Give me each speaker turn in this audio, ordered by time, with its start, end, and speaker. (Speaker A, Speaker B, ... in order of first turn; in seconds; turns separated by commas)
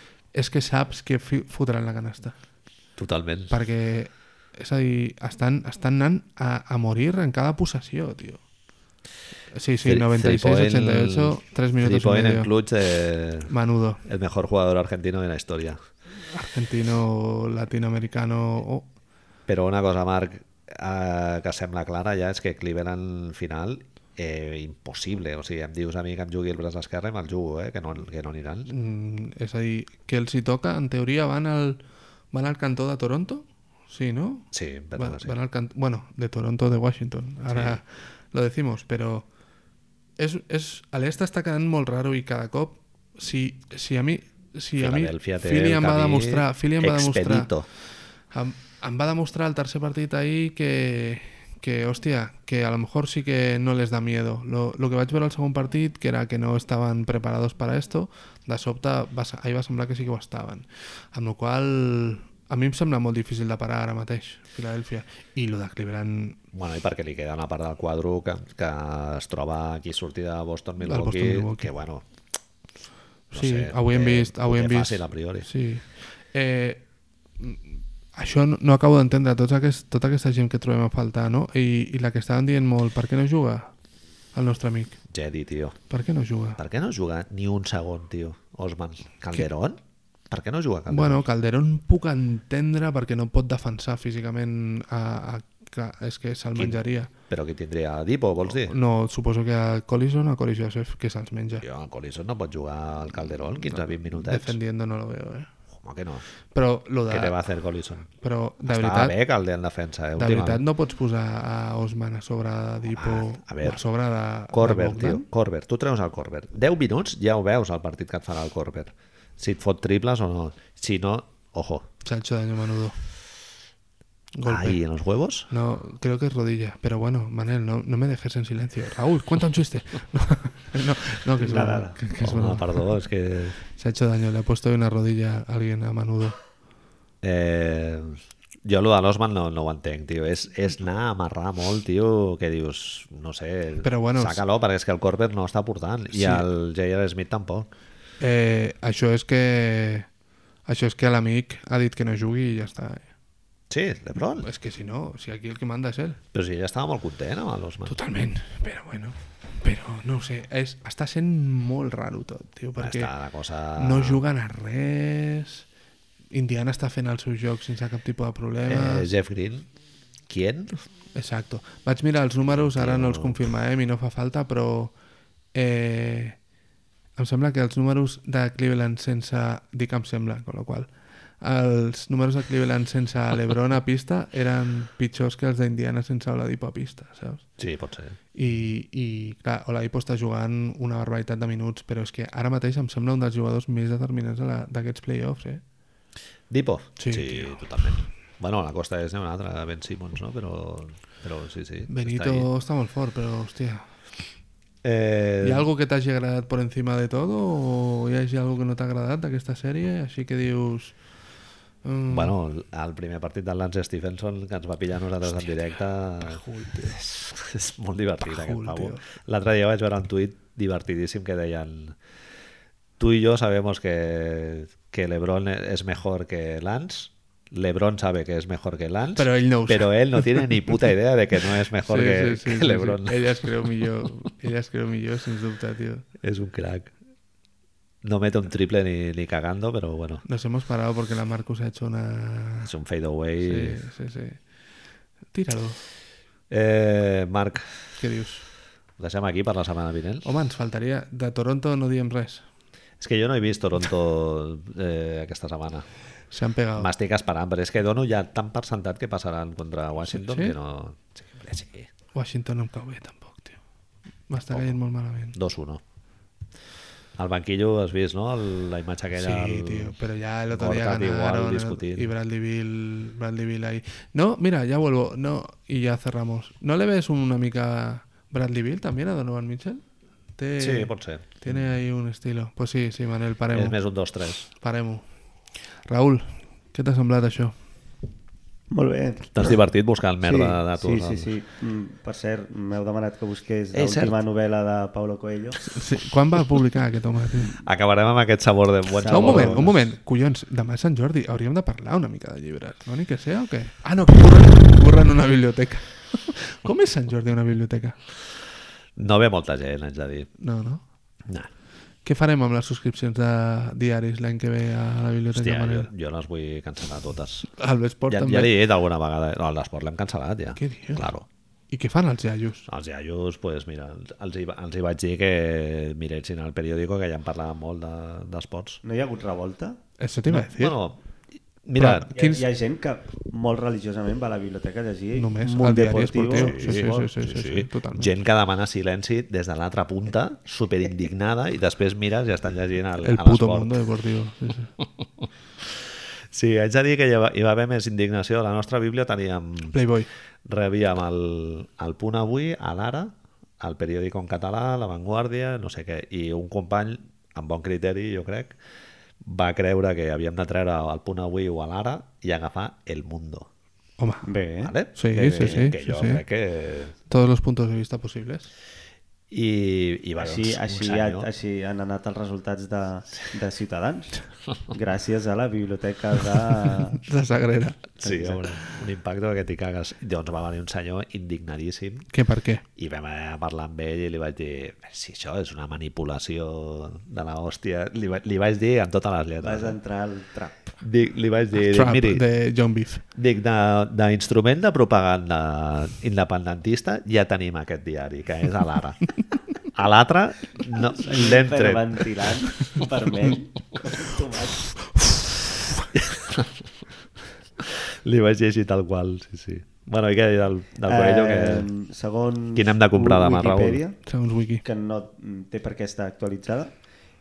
Speaker A: 0.3-2.4, Speaker B: 3.0-3.6, Speaker A: 3.5-8.4, Speaker A: 9.5-12.5, Speaker B: 9.8-13.5, Speaker A: 13.5-14.0, Speaker B: 14.0-15.8, Speaker A: 16.3-18.9, Speaker B: 19.5-28.7, Speaker A: 28.7-31.8, Speaker A: 32.3-39.3, Speaker B: 34.5-35.4, Speaker B: 37.5-37.8, Speaker A: 40.2-47.5, Speaker B: 44.8-47.7, Speaker A: 48.3-66.4, Speaker B: 66.5-72.0, Speaker A: 70.8-71.7, Speaker A: 73.3-76.8, Speaker B: 73.3-75.5, Speaker A: 77.4-83.7, Speaker A: 84.3-85.0, Speaker B: 85.1-85.8, Speaker A: 85.9-86.6, Speaker B: 86.6-91.2, Speaker A: 90.9-97.1, Speaker B: 96.6-98.8, Speaker A: 98.5-101.7, Speaker B: 101.6-104.6, Speaker A: 103.7-105.5, Speaker B: 105.7-106.2, Speaker A: 106.5-107.4, Speaker B: 107.1-108.1, Speaker A: 108.2-109.2, Speaker B: 108.6-110.6, Speaker A: 110.2-115.2, Speaker B: 112.9-113.8, Speaker B: 114.5-121.9, Speaker A: 122.0-123.0, Speaker A: 124.4-124.8, Speaker B: 124.5-125.5, Speaker A: 125.5-132.9, Speaker C: 131.4-132.0, Speaker B: 132.2-133.6, Speaker A: 133.7-136.3, Speaker B: 137.2-147.7, Speaker A: 143.8-144.4, Speaker A: 146.1-146.4, Speaker A: 148.2-150.1, Speaker A: 150.7-153.1, Speaker B: 153.7-154.5, Speaker A: 154.4-156.2, Speaker B: 156.3-158.0, Speaker A: 157.9-163.1, Speaker B: 162.8-164.2, Speaker A: 163.8-165.7, Speaker A: 166.3-169.1, Speaker B: 168.7-169.7, Speaker B: 170.3-170.8, Speaker A: 171.2-174.9, Speaker B: 172.7-173.4, Speaker A: 175.5-176.4, Speaker A: 177.2-180.9, Speaker A: 181.4-187.5, Speaker B: 187.6-188.2, Speaker A: 188.3-195.6, Speaker B: 196.5-202.5, Speaker A: 197.0-197.6, Speaker A: 201.9-203.9, Speaker B: 204.8-205.7, Speaker A: 205.4-210.9, Speaker A: 211.8-212.3, Speaker B: 212.1-222.0, Speaker A: 216.2-217.0, Speaker A: 218.2-219.1, Speaker B: 223.0-233.7, Speaker A: 229.2-230.9, Speaker A: 231.8-236.1, Speaker B: 236.2-236.9, Speaker B: 238.0-240.2, Speaker A: 240.2-242.7, Speaker B: 242.6-243.8, Speaker A: 243.4-244.4, Speaker A: 245.3-245.8, Speaker B: 246.5-247.8, Speaker A: 248.0-248.4, Speaker B: 249.0-250.3, Speaker A: 250.2-252.5, Speaker B: 253.0-255.9, Speaker A: 256.3-256.9, Speaker B: 256.8-261.9, Speaker A: 260.0-260.6, Speaker A: 262.1-263.6, Speaker A: 264.3-265.4, Speaker B: 264.5-264.8, Speaker B: 265.3-265.8, Speaker B: 267.2-270.0, Speaker A: 269.1-279.8, Speaker B: 270.5-272.1, Speaker A: 280.4-283.8, Speaker B: 280.6-281.7, Speaker B: 283.5-284.5, Speaker A: 284.5-285.1, Speaker A: 285.9-287.6, Speaker C: 288.7-289.6, Speaker B: 289.4-291.3, Speaker C: 290.2-295.6, Speaker B: 293.7-294.2, Speaker A: 295.7-297.6, Speaker B: 297.6-299.8, Speaker C: 299.0-299.7, Speaker A: 299.1-308.0, Speaker B: 309.0-310.3, Speaker A: 310.4-310.8, Speaker A: 312.1-315.9, Speaker B: 315.3-317.5, Speaker A: 317.5-318.6, Speaker B: 318.1-321.3, Speaker A: 320.6-321.1, Speaker A: 321.7-322.7, Speaker B: 322.7-328.8, Speaker C: 328.8-329.8, Speaker A: 330.0-330.8, Speaker B: 330.3-331.0, Speaker B: 331.6-332.1, Speaker A: 331.8-332.4, Speaker C: 332.1-336.8, Speaker A: 335.1-338.1, Speaker B: 336.3-343.8, Speaker A: 343.0-344.7, Speaker B: 346.3-349.8, Speaker A: 349.7-350.1, Speaker B: 350.4-358.6, Speaker B: 359.2-363.5, Speaker A: 364.0-364.3, Speaker C: 364.3-364.7, Speaker B: 364.6-366.9, Speaker A: 364.9-366.2, Speaker A: 367.1-368.5, Speaker B: 369.3-371.3, Speaker C: 370.2-377.1, Speaker A: 376.9-377.9, Speaker B: 378.0-382.1, Speaker C: 378.0-378.5, Speaker A: 382.1-382.6, Speaker B: 382.8-389.8, Speaker C: 389.4-390.7, Speaker B: 390.8-392.2, Speaker A: 391.5-393.0, Speaker B: 393.1-402.1, Speaker C: 400.9-404.8, Speaker B: 405.9-406.5, Speaker B: 407.6-411.7, Speaker C: 410.9-414.0, Speaker B: 412.6-413.8, Speaker A: 414.1-414.6, Speaker C: 414.6-416.7